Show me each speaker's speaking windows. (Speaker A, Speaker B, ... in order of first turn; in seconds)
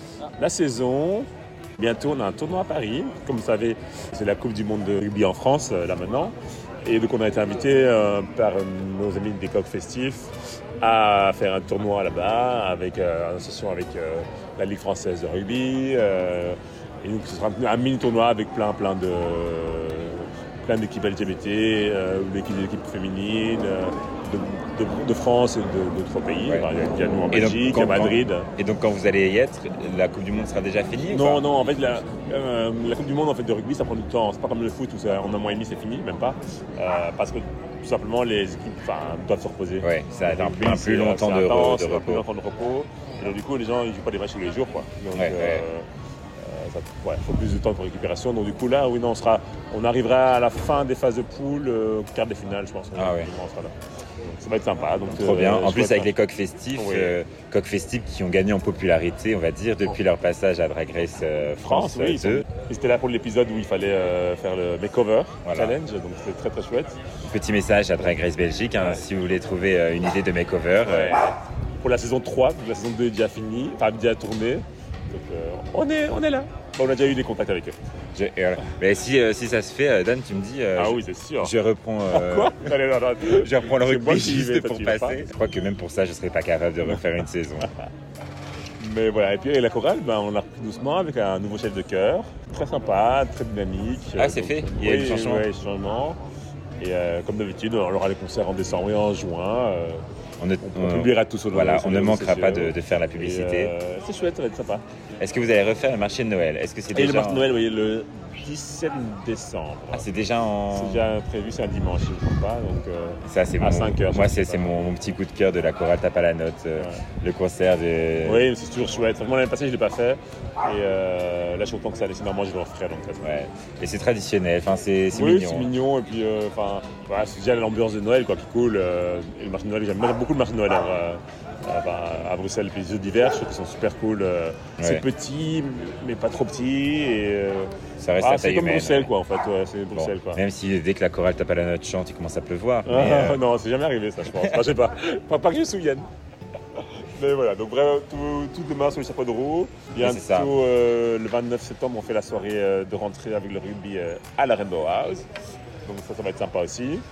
Speaker A: 0.4-28.5, 31.1-45.9, 46.4-56.1, 56.8-57.2, 61.6-67.0, 70.8-77.8, 80.8-81.5, 82.1-85.3, 88.8-96.2, 96.8-100.0, 100.6-104.8, 106.9-110.1, 110.7-115.0, 116.8-117.0, 118.2-123.3, 125.1-140.4, 142.8-146.1, 146.8-155.3, 155.8-157.0
Speaker B: 27.3-31.5, 39.8-42.2, 45.1-45.6, 53.0-53.3, 55.1-62.5, 65.5-65.8, 67.2-71.2, 78.1-87.7, 94.2-95.5, 100.4-103.7, 105.2-107.5, 109.9-111.1, 113.2-118.5, 123.2-125.7, 134.8-135.1, 138.0-139.1, 139.9-143.4, 150.0-150.6